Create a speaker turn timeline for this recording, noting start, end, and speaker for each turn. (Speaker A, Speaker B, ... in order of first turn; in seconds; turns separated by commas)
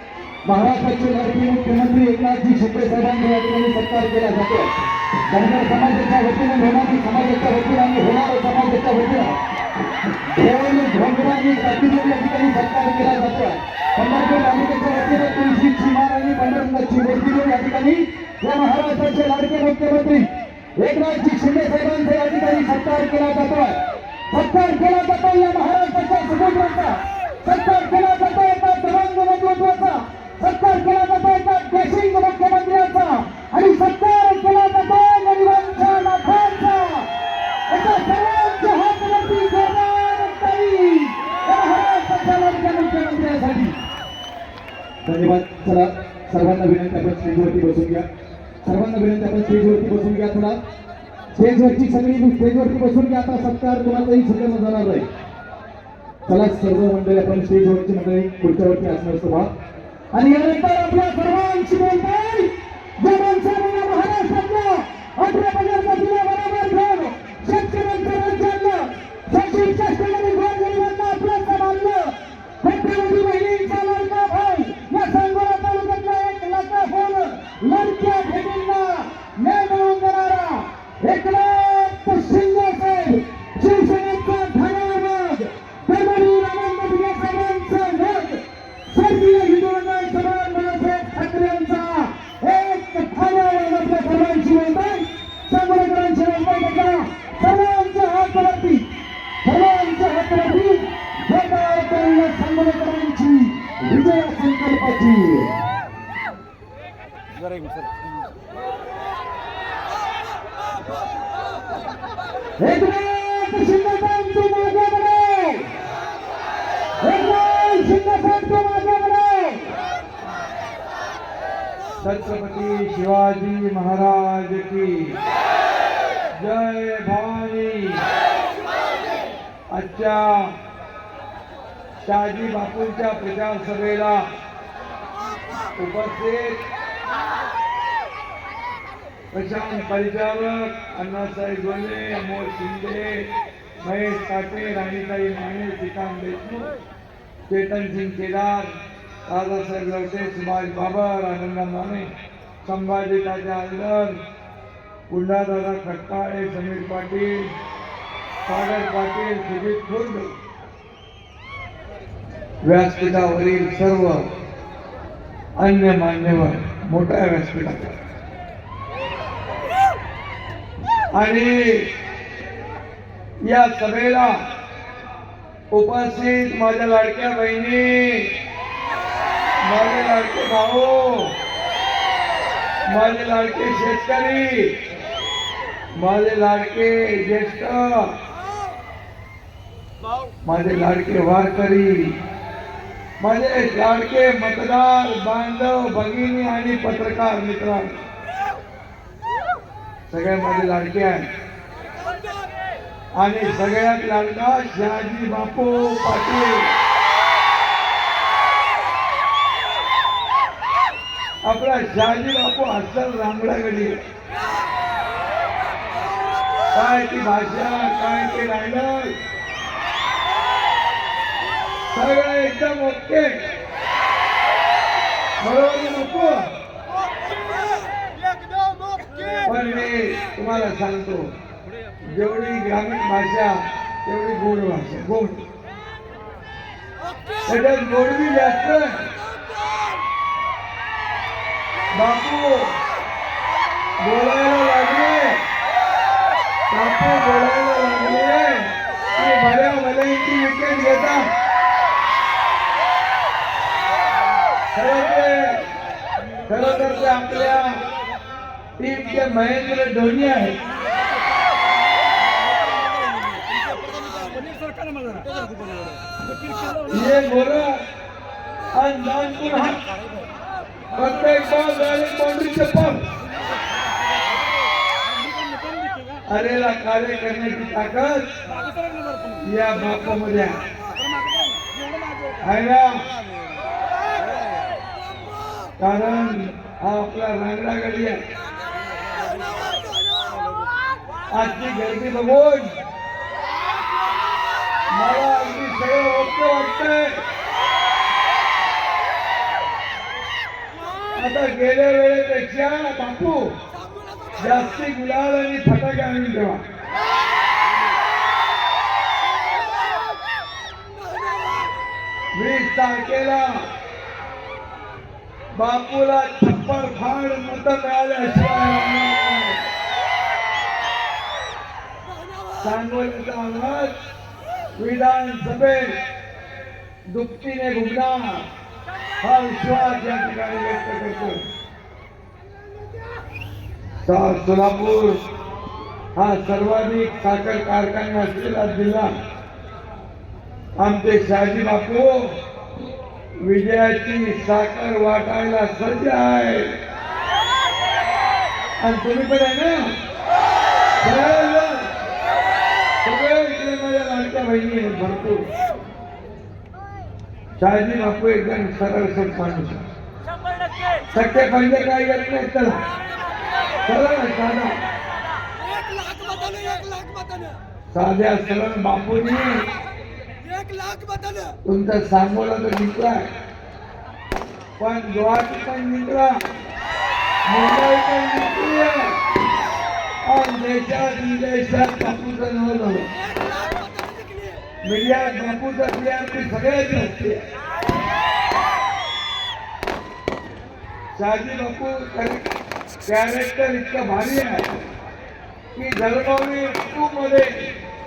Speaker A: 0.4-4.7, Speaker A: 5.3-9.4, Speaker A: 10.4-20.3, Speaker A: 20.8-23.8, Speaker A: 24.3-37.1, Speaker A: 37.7-43.8, Speaker A: 45.0-48.1, Speaker A: 48.6-50.6, Speaker A: 51.4-55.0, Speaker A: 56.3-59.5, Speaker A: 60.1-98.9, Speaker A: 99.4-105.5, Speaker A: 112.6-115.7, Speaker A: 117.0-119.7, Speaker B: 122.0-125.2, Speaker B: 126.3-128.0, Speaker B: 129.7-130.6, Speaker B: 132.0-134.3, Speaker C: 135.2-135.7, Speaker B: 135.8-136.6, Speaker B: 139.3-143.3, Speaker B: 143.8-146.7, Speaker B: 147.5-148.7, Speaker B: 149.2-152.1, Speaker B: 152.6-154.2, Speaker B: 155.1-157.5, Speaker B: 158.4-160.3, Speaker B: 162.6-164.3, Speaker B: 165.6-168.0, Speaker B: 171.1-171.9, Speaker B: 173.4-174.4, Speaker B: 175.7-178.3, Speaker B: 179.6-181.3, Speaker B: 182.9-184.8, Speaker B: 185.9-188.2, Speaker B: 190.4-192.2, Speaker B: 193.2-198.0, Speaker B: 200.1-201.3, Speaker C: 201.9-202.5, Speaker B: 203.2-206.7, Speaker B: 211.4-214.0, Speaker C: 215.6-216.8, Speaker B: 216.7-219.1, Speaker B: 221.9-223.4, Speaker B: 225.4-226.4, Speaker C: 227.2-228.0, Speaker B: 229.4-231.3, Speaker B: 232.0-235.4, Speaker C: 237.0-237.7, Speaker B: 237.5-239.1, Speaker C: 239.1-240.0, Speaker B: 241.9-242.8, Speaker B: 244.0-245.4, Speaker B: 246.7-251.3, Speaker B: 254.7-255.6, Speaker B: 256.5-257.8, Speaker B: 258.8-260.6, Speaker C: 264.0-264.4, Speaker B: 266.9-267.8, Speaker B: 268.7-269.8, Speaker B: 270.9-273.0, Speaker B: 276.3-278.3, Speaker B: 279.4-280.6, Speaker B: 282.4-283.1, Speaker C: 284.6-285.7, Speaker B: 285.8-288.2, Speaker C: 288.8-290.6, Speaker B: 291.3-292.8, Speaker C: 293.9-294.9, Speaker B: 294.9-297.2, Speaker B: 301.1-303.5, Speaker C: 303.7-304.8, Speaker B: 304.4-306.6, Speaker C: 310.9-311.8, Speaker B: 312.3-313.7, Speaker B: 315.6-319.6, Speaker C: 322.0-322.8, Speaker B: 322.6-323.9, Speaker B: 324.8-326.0, Speaker B: 327.1-328.5, Speaker B: 329.2-331.4, Speaker B: 334.0-335.2, Speaker B: 336.1-339.1, Speaker B: 340.8-342.4, Speaker B: 343.4-346.8, Speaker B: 348.8-350.0, Speaker B: 351.0-351.9, Speaker B: 353.0-355.5, Speaker B: 357.6-359.8, Speaker B: 361.1-362.8, Speaker B: 363.9-364.8, Speaker C: 365.6-367.6, Speaker B: 367.9-369.6, Speaker C: 370.4-371.6, Speaker B: 371.6-373.3, Speaker B: 374.8-376.4, Speaker B: 377.4-379.2, Speaker B: 380.2-383.1, Speaker C: 383.2-384.6, Speaker B: 384.8-387.4, Speaker B: 391.1-392.5, Speaker B: 393.1-394.7, Speaker B: 395.8-397.7